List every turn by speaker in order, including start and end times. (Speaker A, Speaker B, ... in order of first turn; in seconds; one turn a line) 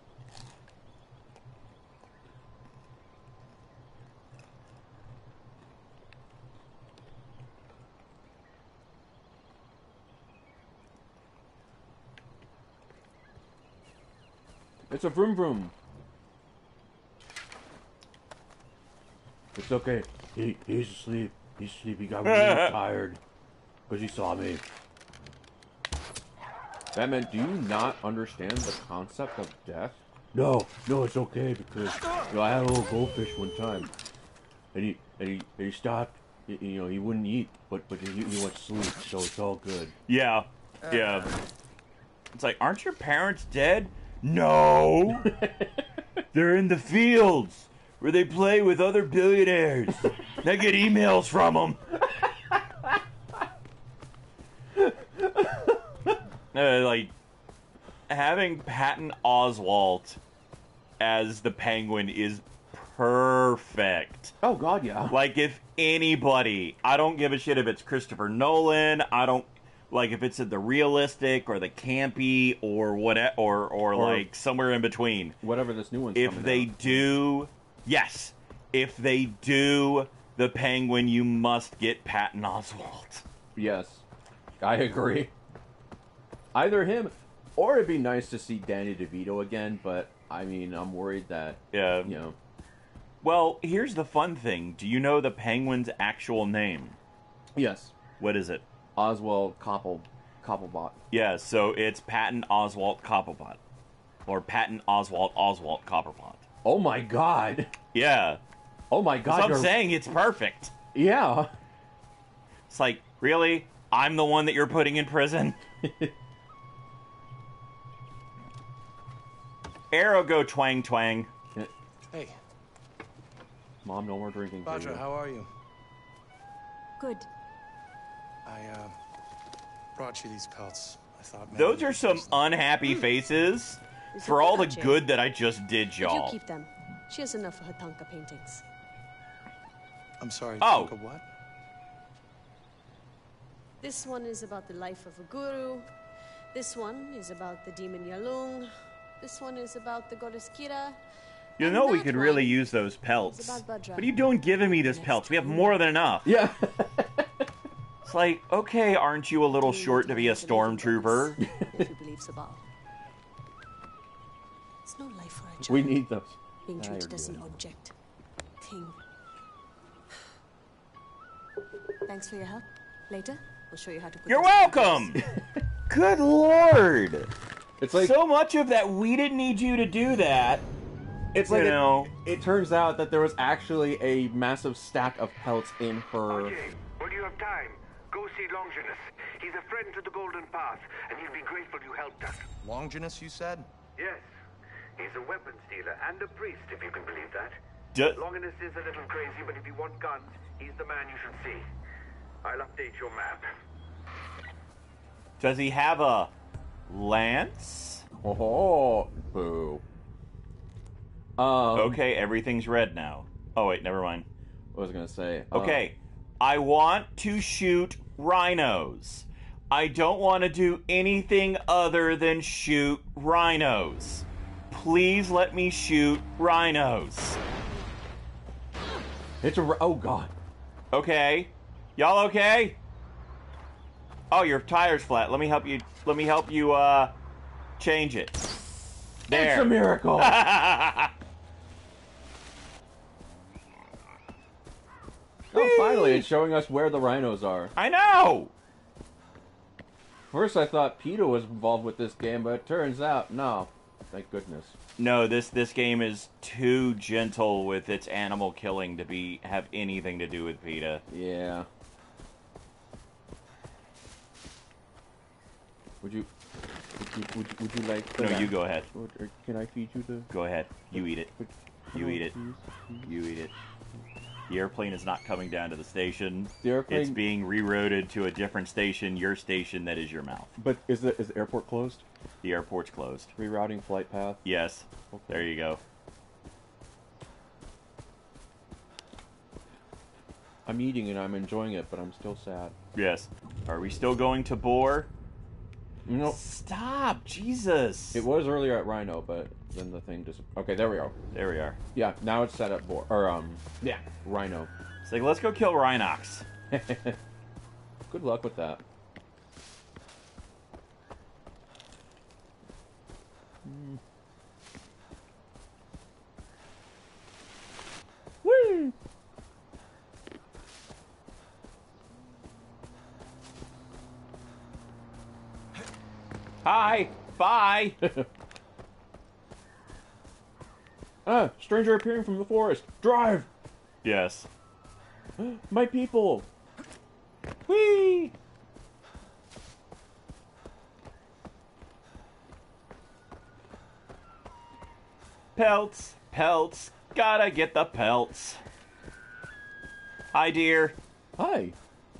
Speaker A: 14.9-15.7
Speaker A: 19.6-23.2
Speaker B: 22.2-22.8
Speaker A: 23.9-24.6
Speaker A: 26.9-33.9
Speaker A: 34.7-39.9
Speaker B: 40.1-41.3
Speaker B: 42.3-45.3
Speaker A: 45.3-45.6
Speaker B: 46.3-52.0
Speaker A: 54.7-56.1
Speaker B: 56.5-57.1
Speaker B: 58.1-60.2
Speaker B: 61.0-64.3
Speaker A: 64.4-65.2
Speaker B: 65.1-75.4
Speaker A: 73.9-74.3
Speaker A: 75.4-77.1
Speaker B: 76.2-83.2
Speaker A: 83.5-84.0
Speaker A: 84.6-85.3
Speaker A: 86.5-92.4
Speaker B: 91.7-92.1
Speaker B: 93.2-97.0
Speaker A: 97.5-97.9
Speaker B: 98.2-98.7
Speaker A: 99.0-101.0
Speaker B: 101.1-103.6
Speaker B: 104.3-106.5
Speaker A: 106.6-107.7
Speaker B: 107.9-108.4
Speaker A: 108.9-109.8
Speaker B: 109.2-110.7
Speaker A: 110.9-111.5
Speaker B: 112.7-115.6
Speaker A: 115.8-116.1
Speaker B: 119.9-121.3
Speaker A: 123.8-125.0
Speaker C: 124.7-125.5
Speaker D: 127.0-127.3
Speaker C: 128.5-128.9
Speaker C: 129.9-132.5
Speaker B: 131.5-136.4
Speaker D: 134.1-135.0
Speaker D: 136.0-138.6
Speaker C: 140.2-141.2
Speaker B: 140.6-140.9
Speaker D: 143.8-145.9
Speaker D: 146.5-151.0
Speaker D: 151.6-152.6
Speaker B: 151.6-156.3
Speaker D: 153.2-154.2
Speaker D: 154.8-155.8
Speaker A: 156.2-157.4
Speaker B: 158.1-161.4
Speaker D: 159.6-162.6
Speaker A: 161.6-161.9
Speaker D: 164.8-166.1
Speaker A: 165.6-167.6
Speaker D: 166.7-167.9
Speaker D: 168.6-169.0
Speaker D: 172.1-175.2
Speaker B: 174.3-175.2
Speaker A: 175.2-175.4
Speaker B: 175.9-177.3
Speaker A: 177.8-178.2
Speaker B: 177.9-180.7
Speaker A: 181.3-186.6
Speaker B: 181.4-182.1
Speaker E: 186.3-192.5
Speaker C: 192.6-193.7
Speaker E: 194.0-194.2
Speaker E: 195.0-197.6
Speaker B: 197.9-198.2
Speaker E: 198.2-201.6
Speaker E: 202.4-203.5
Speaker B: 205.4-206.3
Speaker B: 206.9-208.1
Speaker A: 208.2-209.8
Speaker A: 211.4-212.0
Speaker B: 211.7-214.3
Speaker A: 214.7-215.9
Speaker B: 215.5-227.4
Speaker A: 229.4-230.3
Speaker B: 230.9-232.8
Speaker B: 234.3-237.1
Speaker B: 237.8-238.4
Speaker B: 239.3-241.1
Speaker A: 239.3-240.5
Speaker A: 245.5-247.7
Speaker B: 245.5-246.3
Speaker B: 247.8-248.5
Speaker A: 250.3-254.8
Speaker B: 255.0-261.0
Speaker A: 261.1-261.7
Speaker A: 266.0-266.3
Speaker A: 267.0-270.3
Speaker B: 268.2-268.9
Speaker B: 270.3-271.3
Speaker A: 270.9-273.1
Speaker B: 271.9-272.4
Speaker B: 273.0-273.5
Speaker B: 274.5-280.6
Speaker A: 276.6-277.2
Speaker A: 280.6-282.0
Speaker B: 282.4-283.3
Speaker A: 283.4-284.5
Speaker B: 284.4-285.8
Speaker A: 285.1-285.5
Speaker A: 290.7-292.8
Speaker B: 292.9-295.1
Speaker A: 296.1-296.4
Speaker B: 296.2-298.3
Speaker A: 298.1-301.1
Speaker B: 301.3-301.8
Speaker A: 301.9-304.7
Speaker B: 305.0-306.4
Speaker A: 306.7-307.2
Speaker A: 308.1-308.8
Speaker A: 313.6-314.0
Speaker A: 318.4-318.9
Speaker B: 326.6-328.0
Speaker A: 328.0-328.3
Speaker A: 331.2-333.5
Speaker B: 334.0-334.5
Speaker A: 335.4-336.5
Speaker A: 337.7-338.3
Speaker B: 345.6-348.6
Speaker B: 350.3-351.0
Speaker A: 351.4-351.8